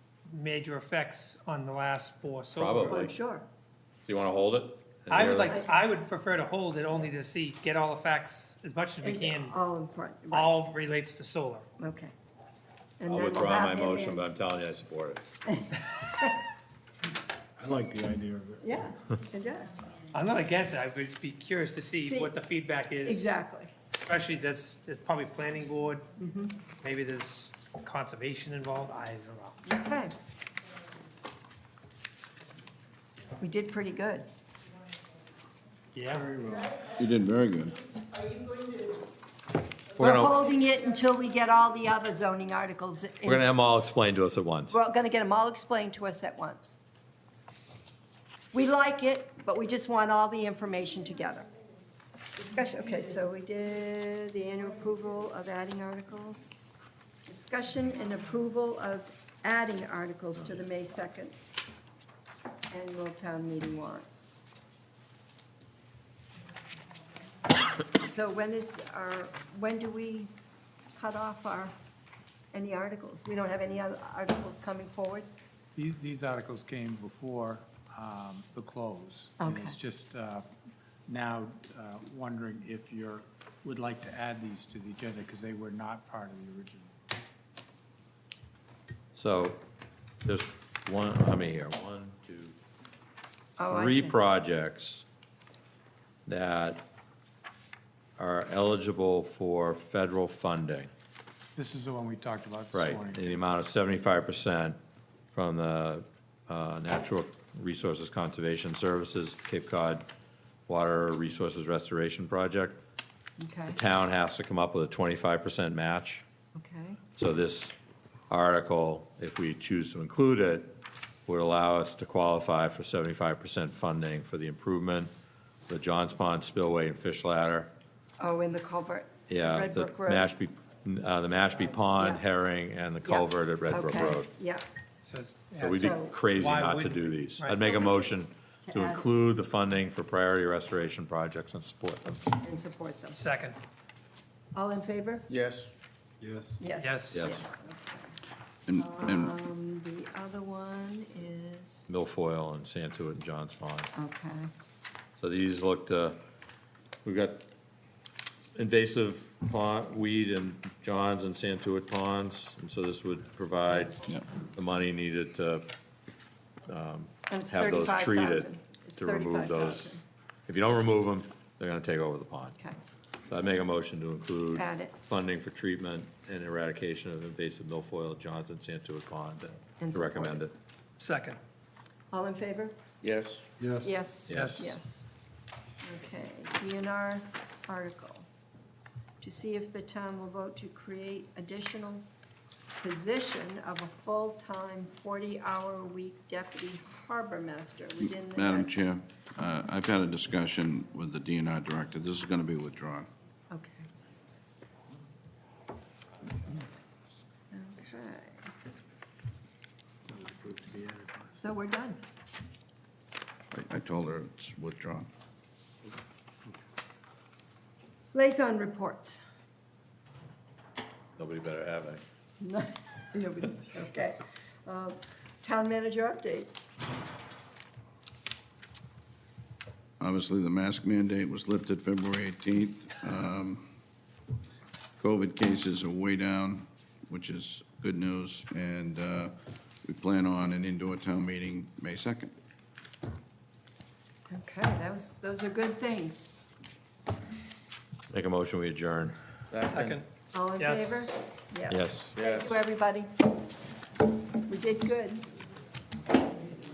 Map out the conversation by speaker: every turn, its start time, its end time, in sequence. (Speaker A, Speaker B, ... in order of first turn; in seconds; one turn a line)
Speaker A: 0.2-3.0
Speaker B: 2.5-3.1
Speaker C: 2.9-3.5
Speaker B: 4.0-5.5
Speaker A: 5.1-9.6
Speaker C: 5.2-5.9
Speaker C: 9.0-10.7
Speaker A: 10.3-11.7
Speaker C: 11.8-12.1
Speaker C: 13.0-14.2
Speaker B: 13.1-15.2
Speaker C: 15.5-16.4
Speaker D: 17.6-18.1
Speaker C: 18.6-19.7
Speaker A: 20.1-23.4
Speaker C: 22.0-22.3
Speaker C: 23.0-23.7
Speaker A: 24.0-26.1
Speaker C: 26.2-26.5
Speaker A: 26.8-29.6
Speaker C: 29.6-30.1
Speaker C: 33.4-34.2
Speaker A: 35.9-36.3
Speaker D: 36.3-36.7
Speaker E: 36.7-37.8
Speaker C: 40.0-43.5
Speaker B: 40.0-40.4
Speaker B: 43.2-44.8
Speaker C: 44.7-46.8
Speaker C: 48.5-51.5
Speaker C: 52.4-56.6
Speaker C: 57.2-61.4
Speaker C: 62.7-64.3
Speaker C: 67.9-70.3
Speaker C: 71.0-71.7
Speaker C: 72.5-75.3
Speaker D: 75.8-80.5
Speaker C: 79.4-79.8
Speaker D: 81.1-86.9
Speaker B: 89.1-89.6
Speaker B: 90.2-92.5
Speaker C: 93.6-94.2
Speaker B: 93.6-95.0
Speaker B: 96.2-96.8
Speaker B: 98.2-100.9
Speaker D: 101.5-103.3
Speaker B: 102.7-104.8
Speaker B: 105.3-110.1
Speaker B: 110.7-112.8
Speaker C: 113.4-113.8
Speaker B: 113.7-116.2
Speaker C: 116.5-117.0
Speaker B: 117.2-117.7
Speaker B: 118.3-125.1
Speaker B: 125.7-127.7
Speaker C: 128.2-130.3
Speaker B: 129.3-134.3
Speaker C: 132.0-132.2
Speaker C: 133.0-134.6
Speaker A: 135.0-137.7
Speaker B: 135.6-142.2
Speaker C: 135.7-136.2
Speaker C: 137.8-138.1
Speaker C: 138.6-139.1
Speaker C: 142.4-143.2
Speaker A: 143.1-143.6
Speaker C: 144.5-145.3
Speaker F: 145.3-145.7
Speaker F: 146.2-146.6
Speaker C: 146.6-148.1
Speaker A: 146.8-147.2
Speaker B: 147.1-147.4
Speaker E: 148.7-149.3
Speaker C: 148.8-151.9
Speaker B: 151.9-153.9
Speaker C: 153.9-154.5
Speaker B: 155.2-156.2
Speaker B: 157.0-157.4
Speaker B: 158.5-164.0
Speaker B: 164.5-165.7
Speaker B: 166.7-172.6
Speaker C: 167.3-170.0
Speaker B: 173.3-180.5
Speaker C: 174.5-175.0
Speaker C: 179.8-180.4
Speaker A: 181.0-181.4
Speaker C: 182.1-182.8
Speaker F: 183.0-183.9
Speaker C: 183.8-185.1
Speaker B: 184.3-184.7
Speaker A: 184.3-184.7
Speaker C: 185.8-188.3
Speaker C: 189.2-192.1
Speaker C: 192.8-198.7
Speaker E: 198.2-203.1
Speaker C: 203.5-203.9
Speaker C: 207.5-208.5
Speaker D: 210.2-211.0
Speaker C: 211.4-212.0
Speaker E: 213.5-215.1
Speaker C: 218.1-219.2
Speaker B: 221.2-222.0
Speaker C: 222.4-226.7
Speaker E: 230.0-233.6
Speaker E: 235.0-242.3
Speaker C: 244.3-246.5
Speaker B: 248.1-249.2
Speaker F: 249.5-250.0
Speaker A: 249.6-250.0
Speaker C: 250.3-253.1
Speaker A: 250.6-251.1
Speaker B: 251.7-252.1
Speaker F: 252.2-252.5
Speaker C: 254.4-255.2